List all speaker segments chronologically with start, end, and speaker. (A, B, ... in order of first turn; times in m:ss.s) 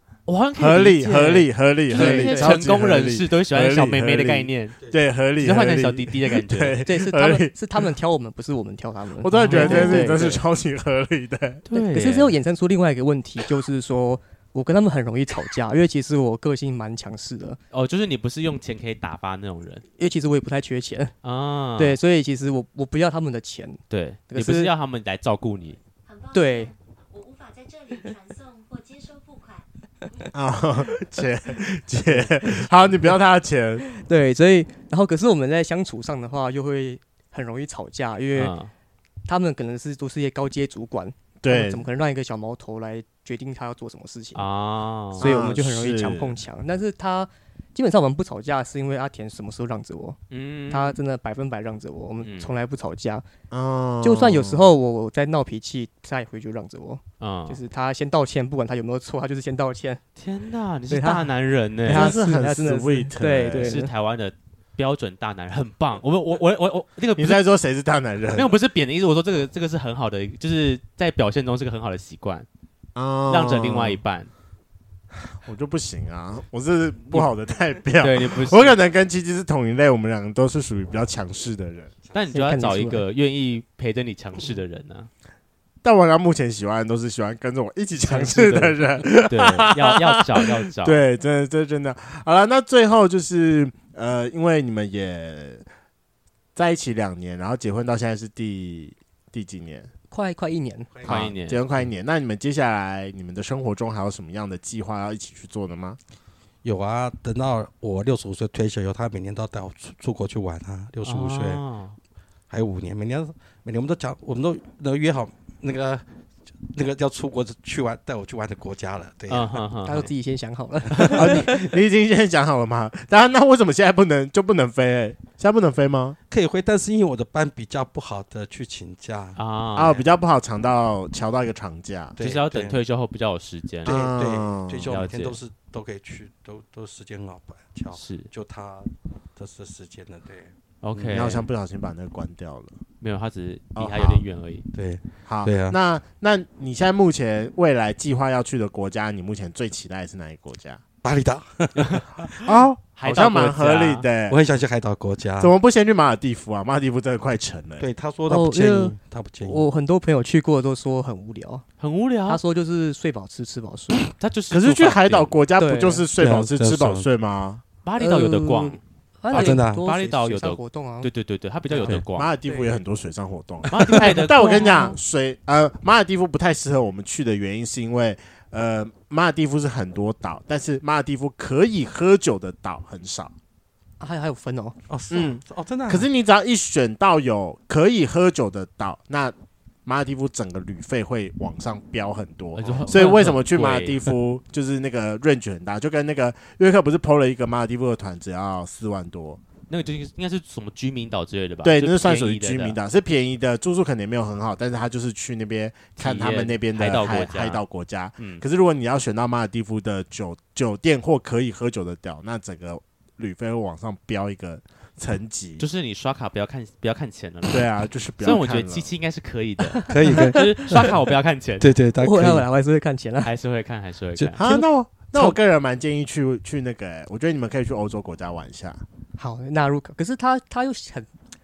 0:00.3-0:04.8 A
0:00.6-0:07.8 B
0:01.9-0:02.6 C
0:05.4-0:06.8 A
0:06.8-0:10.4 C
0:09.2-0:11.6 B
0:09.3-0:10.2 A
0:11.7-0:12.3 A
0:11.7-0:17.6 C
0:17.7-0:19.8 A
0:20.0-0:21.1 C
0:21.2-0:22.0 A
0:21.8-0:24.7 C
0:23.9-0:25.8 A
0:26.0-0:30.3 D
0:26.3-0:26.7 C
0:30.3-0:33.9 B
0:33.9-0:38.6 C
0:38.4-0:38.7 A
0:39.3-0:44.5 C
0:41.4-0:41.9 B
0:44.4-0:45.3 A
0:45.2-0:46.4 B
0:45.2-0:50.2 C
0:50.3-0:51.0 A
0:50.7-0:53.2 C
0:52.2-0:52.5 A
0:53.5-0:54.7 B
0:54.0-1:00.0 C
0:57.2-0:57.6 A
1:00.2-1:02.1 A
1:00.9-1:01.3 C
1:01.9-1:03.9 C
1:01.9-1:03.8 B
1:03.5-1:07.4 A
1:07.2-1:08.5 B
1:08.3-1:12.5 A
1:13.0-1:14.0 B
1:13.3-1:14.3 A
1:15.3-1:21.9 B
1:18.0-1:18.8 A
1:22.1-1:25.1 A
1:22.3-1:23.0 C
1:25.8-1:35.7 B
1:28.1-1:31.0 A
1:36.6-1:39.9 B
1:40.1-1:40.9 C
1:40.9-1:41.2 E
1:41.0-1:46.0 B
1:41.0-1:41.6 A
1:46.6-1:51.6 E
1:51.0-1:52.0 A
1:52.5-2:00.1 E
1:59.3-2:00.1 A
1:59.8-2:01.7 C
2:00.9-2:01.4 E
2:01.1-2:06.2 B
2:06.3-2:09.4 E
2:09.4-2:10.0 A
2:09.8-2:12.2 B
2:12.2-2:12.8 E
2:12.2-2:13.9 A
2:13.8-2:21.4 E
2:13.8-2:14.9 B
2:14.8-2:15.4 A
2:17.9-2:18.3 A
2:20.8-2:21.5 A
2:21.1-2:22.8 B
2:23.0-2:24.7 A
2:23.8-2:24.2 B
2:24.7-2:25.8 E
2:25.3-2:30.8 B
2:31.0-2:32.3 E
2:31.8-2:32.4 A
2:32.4-2:34.4 B
2:33.0-2:34.1 A
2:34.3-2:35.5 E
2:35.4-2:37.9 B
2:37.8-2:39.7 E
2:38.3-2:41.7 C
2:41.8-2:42.4 A
2:42.3-2:44.1 C
2:44.2-2:45.4 A
2:44.5-2:47.6 B
2:45.6-2:46.1 C
2:46.2-2:47.1 E
2:47.8-2:52.3 A
2:48.0-2:51.1 C
2:49.3-2:49.9 E
2:51.8-3:03.4 B
2:52.4-2:52.8 C
2:53.7-2:54.9 A
2:53.9-2:55.0 C
3:04.0-3:04.8 C
3:04.9-3:06.1 E
3:05.1-3:09.4 B
3:09.9-3:19.4 B
3:12.5-3:14.0 A
3:12.6-3:13.2 E
3:19.7-3:22.8 A
3:21.6-3:35.6 B
3:26.0-3:27.6 A
3:28.2-3:28.4 A
3:35.6-3:37.7 A
3:37.5-3:38.9 B
3:38.2-3:41.7 A
3:39.7-3:40.9 C
3:39.9-3:41.0 E
3:41.6-3:42.5 E
3:42.0-3:43.3 C
3:43.2-3:44.4 A
3:44.2-3:44.6 E
3:44.4-3:48.8 B
3:49.2-3:51.1 C